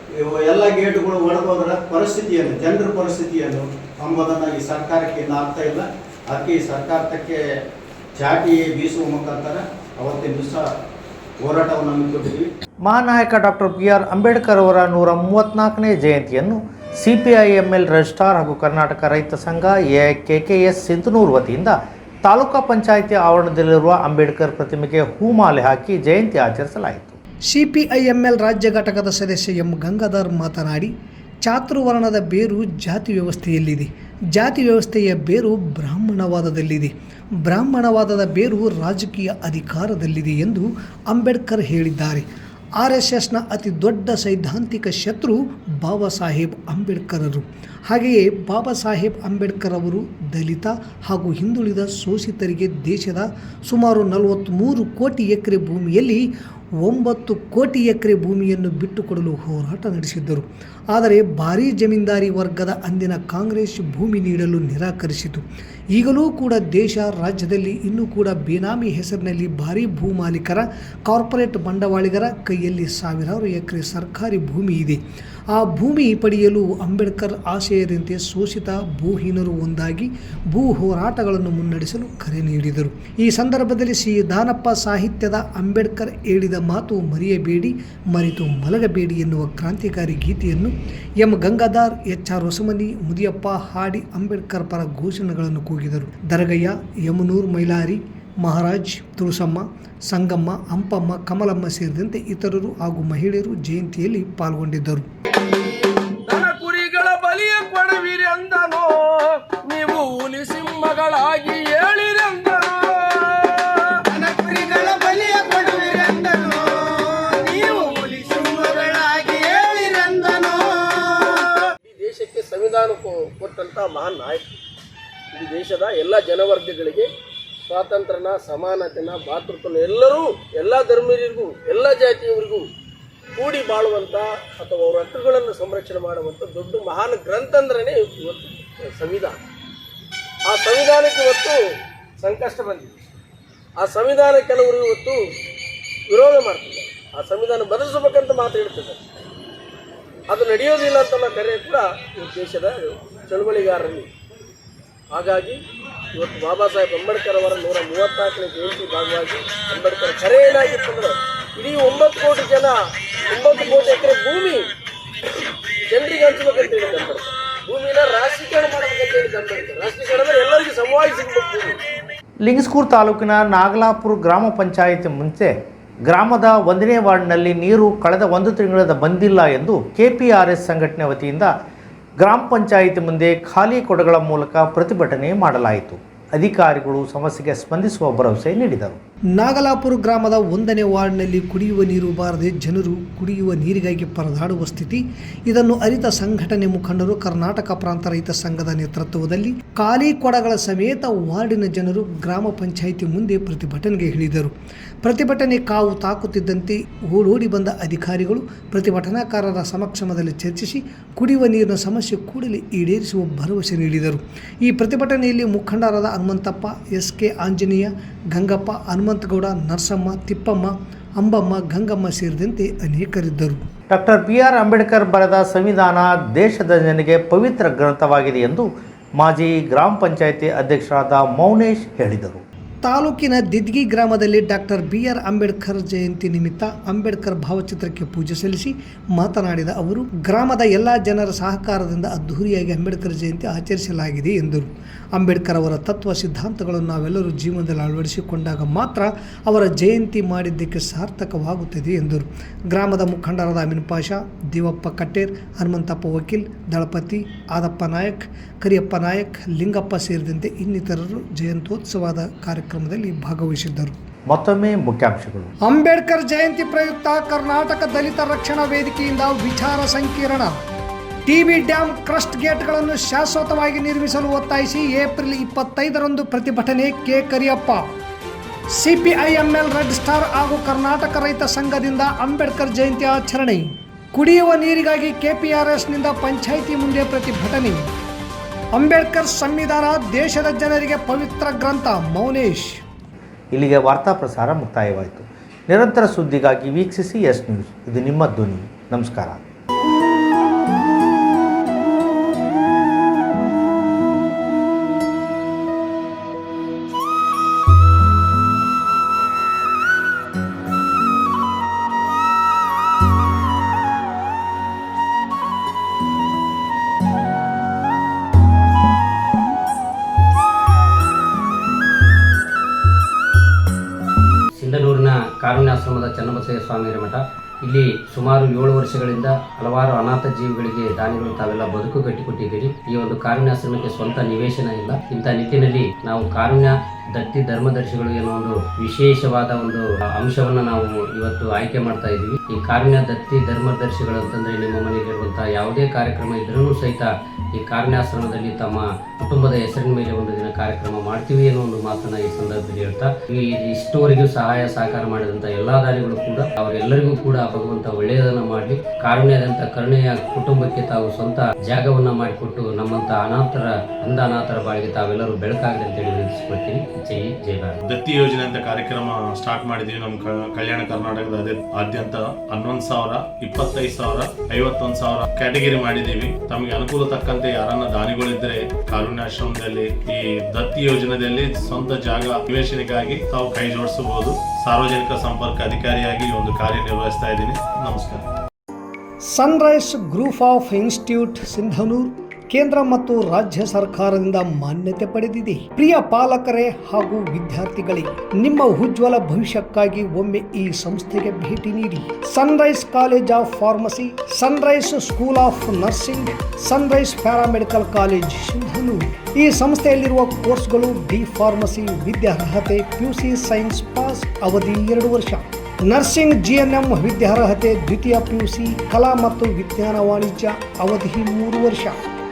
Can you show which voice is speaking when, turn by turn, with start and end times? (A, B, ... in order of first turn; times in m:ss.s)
0:00.2-0:07.4 A
0:08.1-0:10.7 A
0:11.4-0:12.4 A
0:12.8-0:27.2 B
0:27.5-0:30.9 C
0:31.4-0:36.9 C
0:37.4-0:56.2 C
0:56.8-1:15.0 C
1:15.5-1:45.1 C
1:46.2-1:54.2 D
1:54.4-1:54.8 C
1:55.6-1:56.0 C
1:56.8-1:59.4 C
1:59.4-1:59.8 D
2:00.1-2:00.4 C
2:00.4-2:04.6 D
2:05.3-2:07.1 D
2:07.7-2:12.7 D
2:13.4-2:19.4 D
2:20.4-2:21.6 D
2:22.2-2:23.0 D
2:23.8-2:25.2 D
2:26.1-2:29.0 D
2:30.3-2:34.1 D
2:35.1-2:35.6 D
2:36.1-2:44.7 D
2:45.9-2:51.8 D
2:52.4-2:55.5 B
2:56.1-3:01.5 B
3:02.2-3:09.0 B
3:09.4-3:43.6 C
3:43.9-3:52.4 B
3:52.8-4:23.9 C
4:24.3-4:25.5 B
4:25.6-4:30.5 C
4:31.2-4:37.9 C
4:38.7-4:47.9 C
4:48.7-4:52.8 C
4:53.5-4:59.4 B
5:24.6-6:07.8 E
6:07.8-6:28.2 F
6:29.3-7:02.0 C